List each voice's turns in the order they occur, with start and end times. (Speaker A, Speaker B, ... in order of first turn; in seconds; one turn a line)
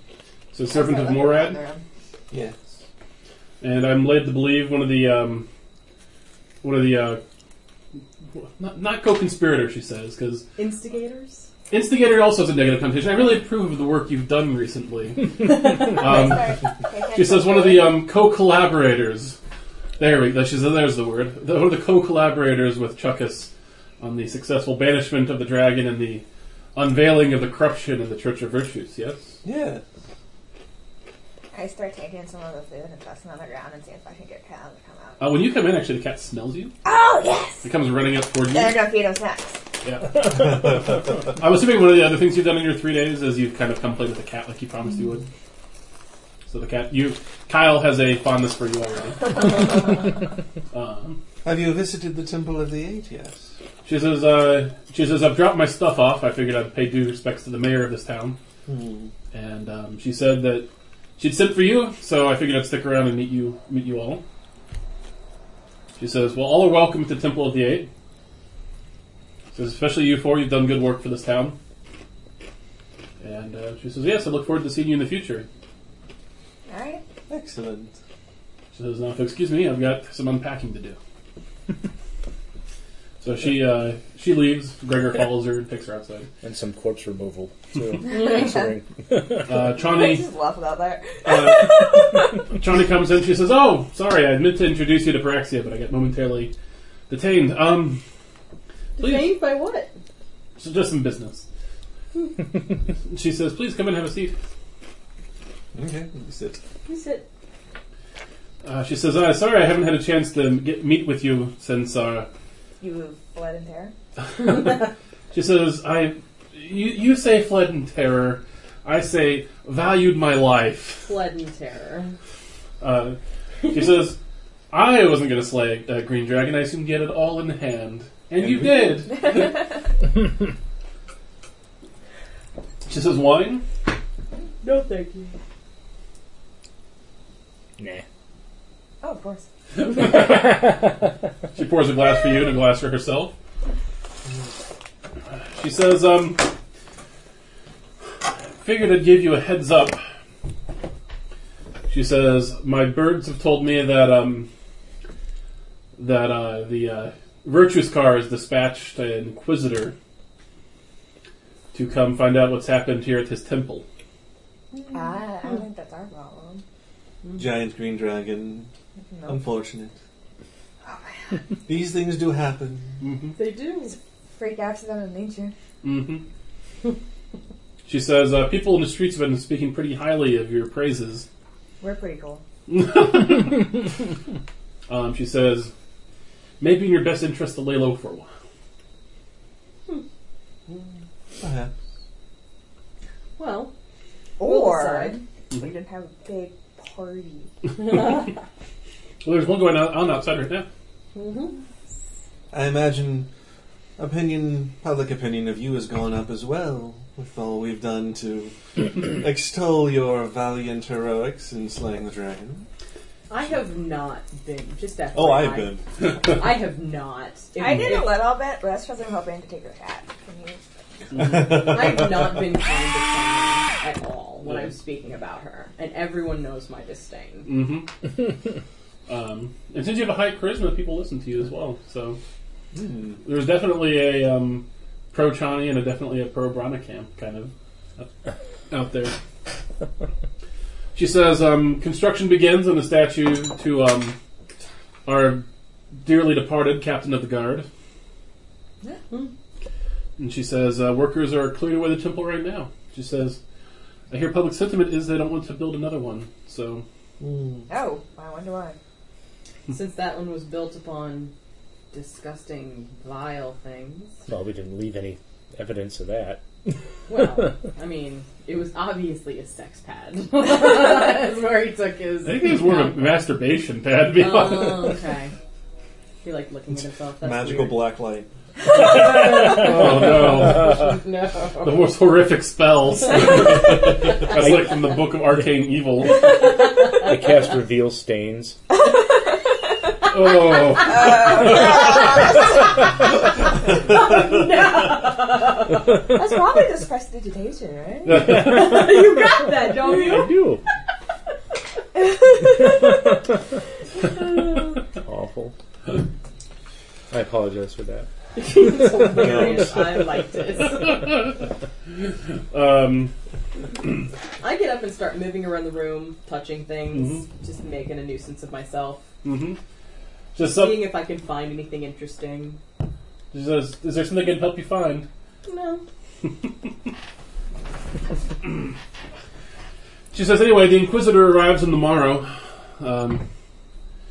Speaker A: 0.5-1.6
Speaker B: 0.7-1.8
Speaker C: 2.3-2.5
Speaker A: 3.6-5.5
Speaker A: 6.6-7.2
Speaker A: 8.4-10.4
Speaker D: 10.6-11.5
Speaker A: 11.7-19.4
Speaker B: 15.8-18.0
Speaker A: 20.0-29.4
Speaker C: 29.4-29.8
Speaker B: 31.5-35.2
Speaker A: 35.2-36.8
Speaker B: 36.8-37.7
Speaker A: 37.6-38.9
Speaker B: 38.4-39.6
Speaker A: 39.8-45.3
Speaker A: 46.5-50.2
Speaker A: 50.7-51.2
Speaker C: 51.4-53.5
Speaker A: 53.8-58.4
Speaker C: 58.6-59.1
Speaker A: 59.3-64.2
Speaker A: 66.0-67.9
Speaker A: 69.5-71.6
Speaker A: 73.2-75.5
Speaker B: 76.7-77.0
Speaker C: 77.3-78.0
Speaker A: 78.7-81.0
Speaker A: 83.2-86.3
Speaker E: 86.4-89.6
Speaker B: 88.0-88.8
Speaker A: 89.5-90.3
Speaker B: 89.7-92.1
Speaker A: 91.2-96.5
Speaker A: 97.1-98.0
Speaker A: 99.0-99.3
Speaker D: 99.0-100.0
Speaker A: 100.6-101.5
Speaker A: 103.1-104.4
Speaker C: 105.7-106.6
Speaker D: 106.8-107.3
Speaker A: 108.6-112.3
Speaker B: 112.8-113.9
Speaker A: 114.4-121.1
Speaker D: 121.0-122.2
Speaker A: 122.8-123.2
Speaker A: 123.7-124.2
Speaker A: 124.7-129.6
Speaker B: 129.3-129.6
Speaker A: 132.8-133.6
Speaker D: 134.6-135.3
Speaker B: 139.0-139.4
Speaker A: 139.8-140.9
Speaker E: 140.2-140.9
Speaker A: 141.5-143.3
Speaker A: 145.3-146.5
Speaker A: 148.6-150.0
Speaker A: 151.9-154.5
Speaker A: 155.9-159.9
Speaker A: 161.7-163.8
Speaker B: 164.7-166.6
Speaker C: 167.3-168.7
Speaker B: 169.1-169.4
Speaker C: 169.2-169.9
Speaker B: 170.8-171.4
Speaker C: 171.7-173.0
Speaker A: 173.0-173.4
Speaker D: 173.3-173.9
Speaker B: 174.4-175.5
Speaker A: 175.8-176.2
Speaker A: 177.8-181.2
Speaker B: 181.8-182.4
Speaker A: 182.7-183.8
Speaker A: 184.9-185.7
Speaker A: 186.6-188.3
Speaker C: 191.4-191.7
Speaker D: 193.4-193.7
Speaker B: 194.4-197.5
Speaker D: 194.4-195.2
Speaker D: 197.8-198.2
Speaker A: 199.2-200.7
Speaker D: 201.1-201.6
Speaker C: 202.5-203.3
Speaker C: 204.0-212.7
Speaker D: 213.3-218.2
Speaker C: 215.1-215.8
Speaker B: 217.6-220.6
Speaker A: 221.1-221.6
Speaker C: 221.2-222.1
Speaker D: 221.5-227.5
Speaker A: 224.4-224.7
Speaker A: 227.4-227.9
Speaker A: 229.1-232.2
Speaker C: 232.7-233.2
Speaker A: 233.2-238.1
Speaker A: 238.7-239.1
Speaker A: 240.9-244.2
Speaker A: 245.0-245.4
Speaker A: 246.0-247.7
Speaker A: 250.2-253.4
Speaker A: 254.1-256.8
Speaker C: 257.2-257.7
Speaker B: 257.7-258.8
Speaker D: 259.7-261.3
Speaker D: 261.9-264.2
Speaker E: 264.3-266.4
Speaker D: 267.1-273.0
Speaker A: 272.2-274.9
Speaker D: 274.1-275.3
Speaker D: 276.2-277.9
Speaker C: 277.2-278.3
Speaker D: 278.7-281.8
Speaker A: 278.9-280.9
Speaker A: 281.6-286.6
Speaker E: 286.9-288.6
Speaker A: 290.1-291.9
Speaker B: 290.7-292.5
Speaker D: 293.6-295.8
Speaker B: 296.1-298.2
Speaker A: 298.1-298.8
Speaker E: 298.2-300.6
Speaker D: 298.3-300.4
Speaker E: 305.0-305.5
Speaker E: 307.1-308.1
Speaker D: 308.4-311.2
Speaker C: 309.1-309.8
Speaker A: 310.8-311.4
Speaker A: 312.5-313.1
Speaker D: 314.4-319.1
Speaker A: 316.9-317.2
Speaker A: 319.2-319.6
Speaker A: 320.3-320.9
Speaker D: 320.4-322.6
Speaker A: 323.3-325.1
Speaker D: 325.4-325.8
Speaker A: 330.1-333.2